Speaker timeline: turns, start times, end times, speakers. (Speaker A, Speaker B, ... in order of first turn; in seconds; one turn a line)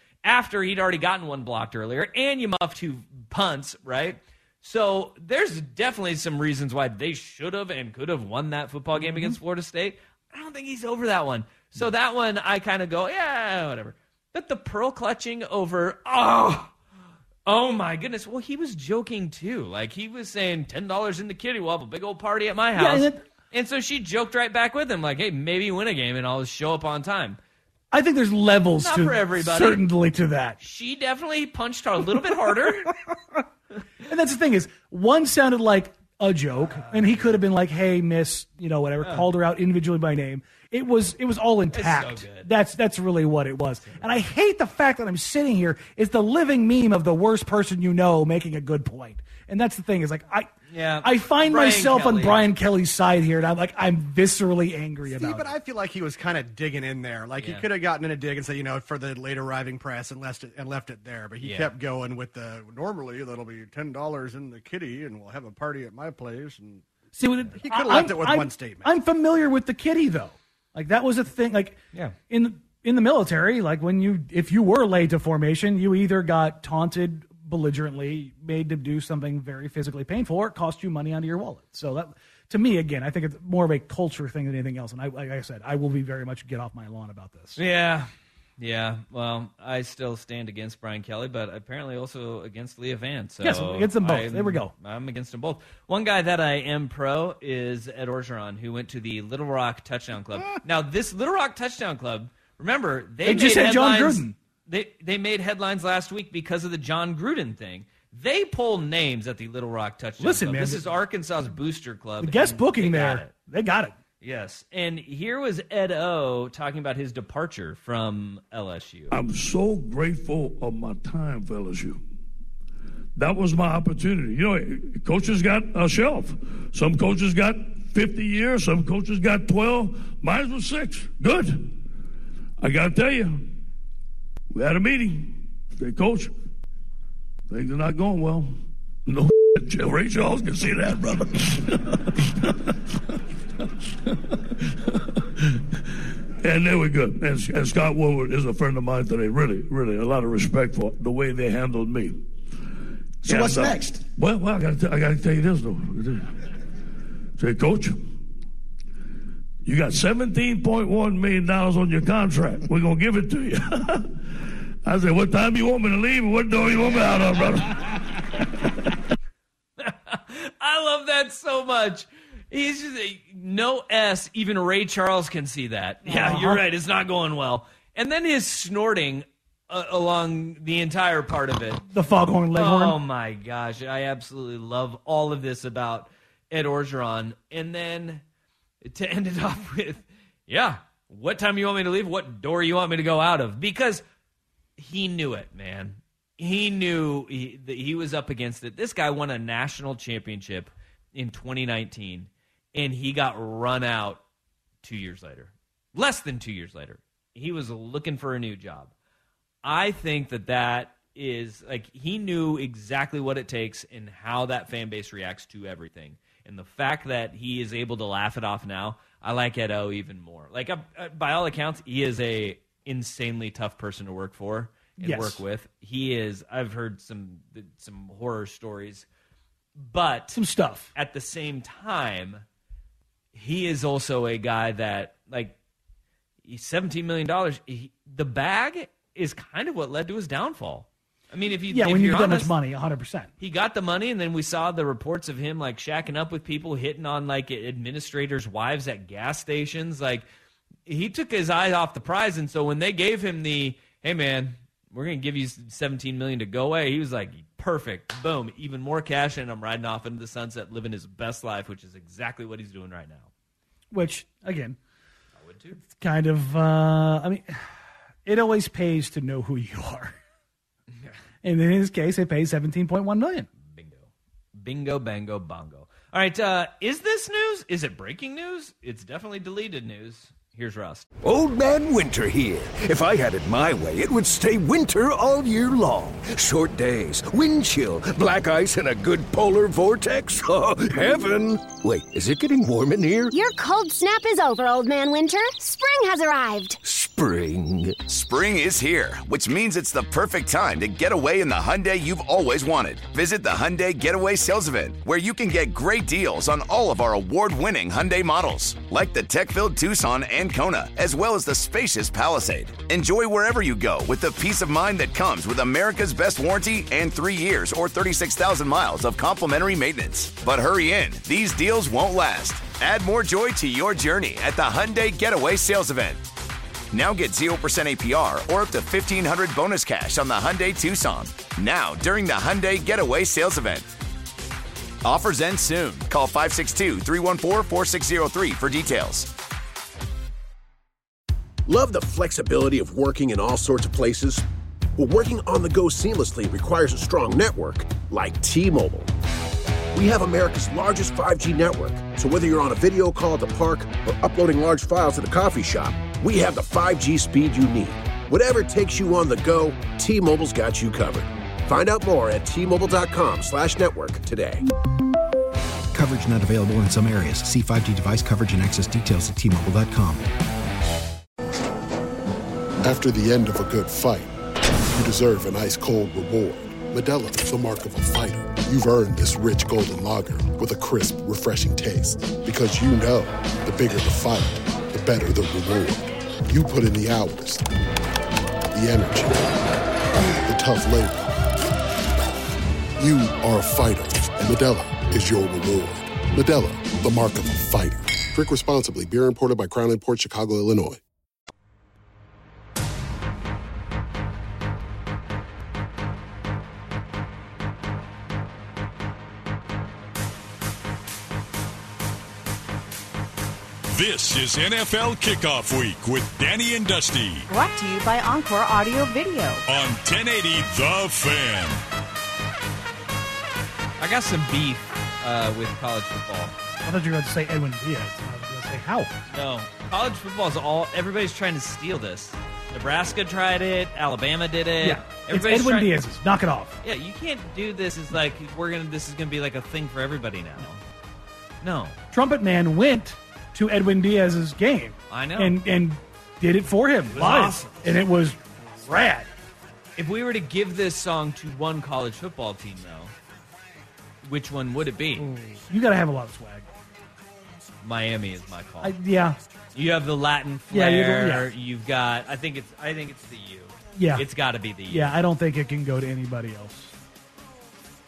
Speaker A: 0.2-16.7
Speaker B: 8.9-9.4
Speaker A: 17.4-27.4
Speaker B: 22.7-23.2
Speaker B: 27.9-30.6
Speaker A: 28.8-29.8
Speaker A: 30.6-33.0
Speaker B: 32.2-33.4
Speaker B: 34.0-55.5
Speaker A: 36.7-37.3
Speaker A: 39.0-39.3
Speaker A: 41.7-42.5
Speaker A: 50.7-52.4
Speaker C: 55.1-66.8
Speaker A: 57.4-57.6
Speaker A: 61.4-61.7
Speaker B: 67.2-87.6
Speaker C: 67.5-68.9
Speaker A: 87.5-113.3
Speaker B: 93.4-94.7
Speaker B: 103.2-104.3
Speaker B: 110.2-110.8
Speaker B: 112.2-113.9
Speaker A: 114.2-119.1
Speaker D: 119.1-122.0
Speaker D: 123.2-131.8
Speaker D: 132.6-133.5
Speaker D: 134.5-136.3
Speaker D: 137.5-142.7
Speaker D: 144.1-145.6
Speaker D: 146.4-152.2
Speaker D: 153.2-156.3
Speaker C: 153.3-153.8
Speaker D: 157.4-158.1
Speaker D: 159.6-164.1
Speaker D: 164.8-168.2
Speaker A: 169.8-181.8
Speaker B: 176.0-176.6
Speaker B: 181.9-183.0
Speaker A: 182.5-188.2
Speaker A: 188.8-194.0
Speaker A: 194.8-204.2
Speaker A: 204.8-208.9
Speaker A: 209.6-229.1
Speaker B: 225.0-225.4
Speaker A: 229.8-232.4
Speaker B: 230.3-230.9
Speaker A: 233.3-235.6
Speaker A: 236.4-242.6
Speaker B: 241.7-243.3
Speaker A: 243.4-250.2
Speaker A: 250.8-263.3
Speaker B: 263.9-264.8
Speaker A: 265.4-265.8
Speaker B: 265.8-270.1
Speaker B: 271.4-273.5
Speaker A: 273.6-281.1
Speaker E: 281.2-293.3
Speaker F: 293.3-296.8
Speaker E: 296.8-298.1
Speaker G: 298.1-326.2
Speaker G: 326.9-333.9
Speaker G: 335.0-339.3
Speaker H: 341.7-344.4
Speaker H: 344.9-349.1
Speaker H: 349.9-364.6
Speaker I: 365.9-370.2
Speaker J: 372.8-374.3
Speaker J: 374.9-387.7
Speaker J: 388.7-389.6
Speaker J: 390.4-391.3
Speaker J: 393.0-401.0
Speaker K: 413.9-417.5
Speaker L: 417.5-419.6
Speaker K: 419.7-421.8
Speaker A: 424.0-426.5
Speaker B: 426.8-429.1
Speaker A: 429.3-435.9
Speaker B: 434.8-436.8
Speaker A: 436.8-440.8
Speaker A: 441.6-441.9
Speaker B: 442.1-449.3
Speaker A: 445.1-445.6
Speaker A: 447.1-448.0
Speaker A: 449.9-453.1
Speaker A: 454.2-455.3
Speaker B: 455.2-456.7
Speaker A: 457.8-458.9
Speaker B: 458.8-459.4
Speaker A: 459.7-465.2
Speaker B: 460.7-461.5
Speaker B: 463.9-464.2
Speaker B: 464.9-466.9